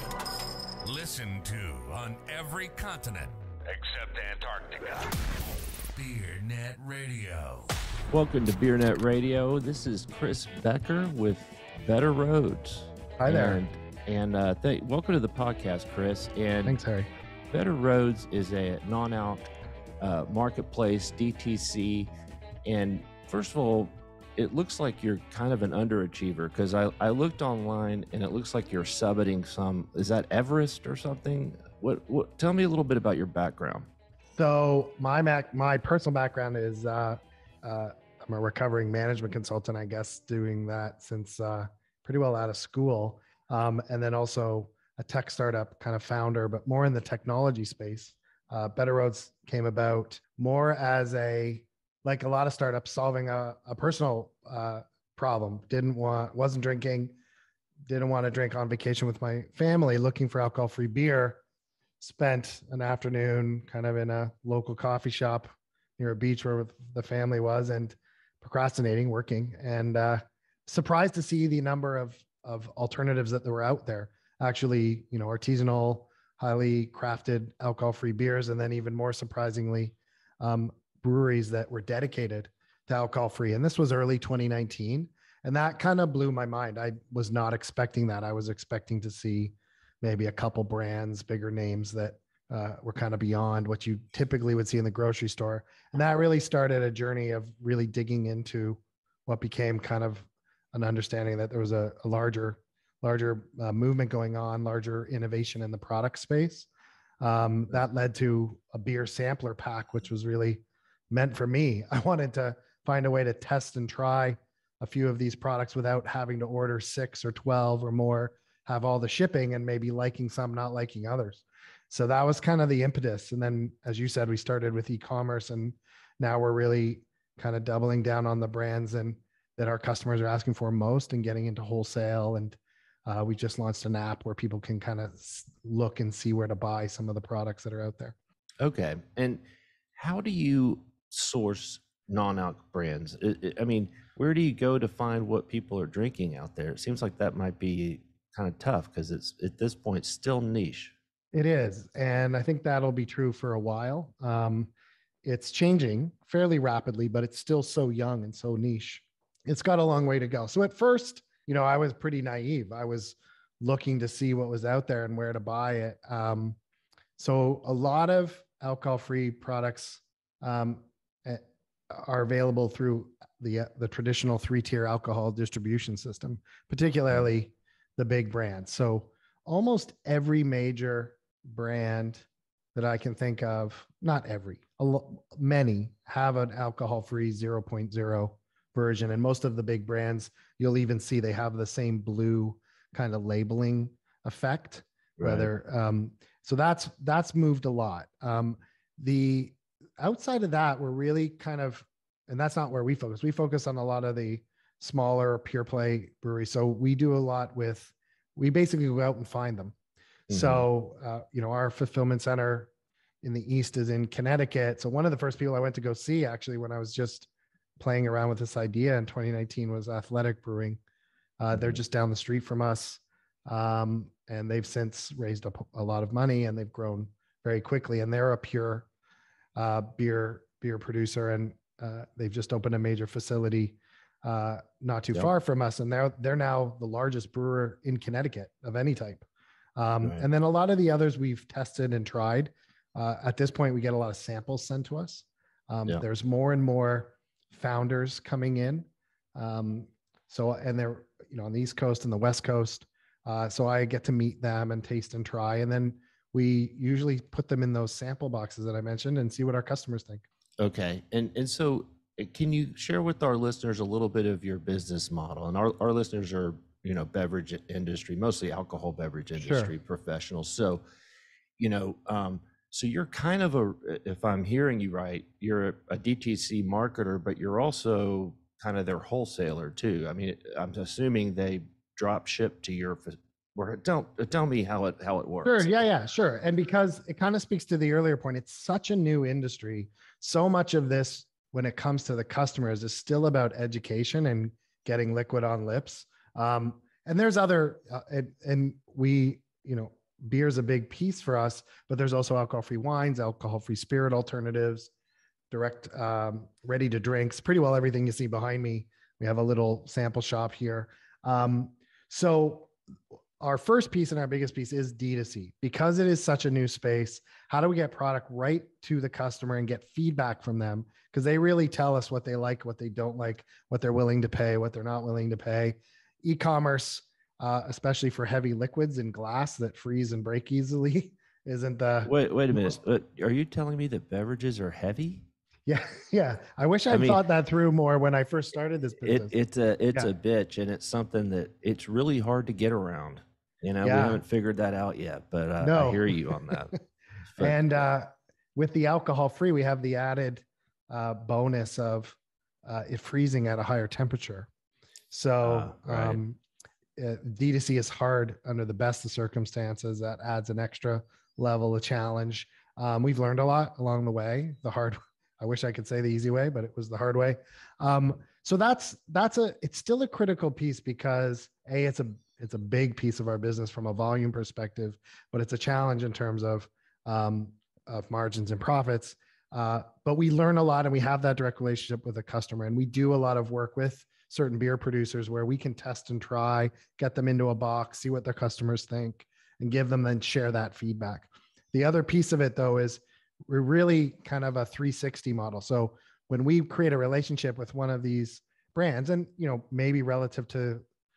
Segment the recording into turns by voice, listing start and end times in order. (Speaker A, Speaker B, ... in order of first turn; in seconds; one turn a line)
Speaker A: 0.8-7.7
Speaker B: 8.1-16.8
Speaker C: 13.2-13.6
Speaker C: 16.6-17.1
Speaker B: 17.5-19.4
Speaker B: 20.0-22.1
Speaker B: 22.6-33.9
Speaker C: 34.4-57.1
Speaker C: 57.9-61.4
Speaker C: 62.0-106.7
Speaker C: 107.2-138.2
Speaker B: 138.6-139.4
Speaker B: 140.0-150.9
Speaker C: 151.3-154.7
Speaker C: 155.2-166.6
Speaker C: 167.2-209.8
Speaker B: 195.2-195.5
Speaker C: 210.3-212.7
Speaker B: 210.3-210.7
Speaker C: 213.2-217.3
Speaker C: 217.8-220.8
Speaker C: 221.4-228.9
Speaker C: 229.6-260.2
Speaker B: 260.6-270.8
Speaker C: 269.4-269.7
Speaker B: 271.6-285.7
Speaker C: 285.4-304.9
Speaker C: 305.5-312.7
Speaker C: 313.4-332.8
Speaker B: 332.1-335.3
Speaker C: 335.7-339.4
Speaker B: 336.9-337.2
Speaker B: 339.0-346.8
Speaker C: 343.8-344.2
Speaker C: 345.6-346.6
Speaker B: 347.3-347.6
Speaker C: 347.4-354.5
Speaker C: 355.1-356.4
Speaker B: 355.4-356.2
Speaker C: 357.0-400.8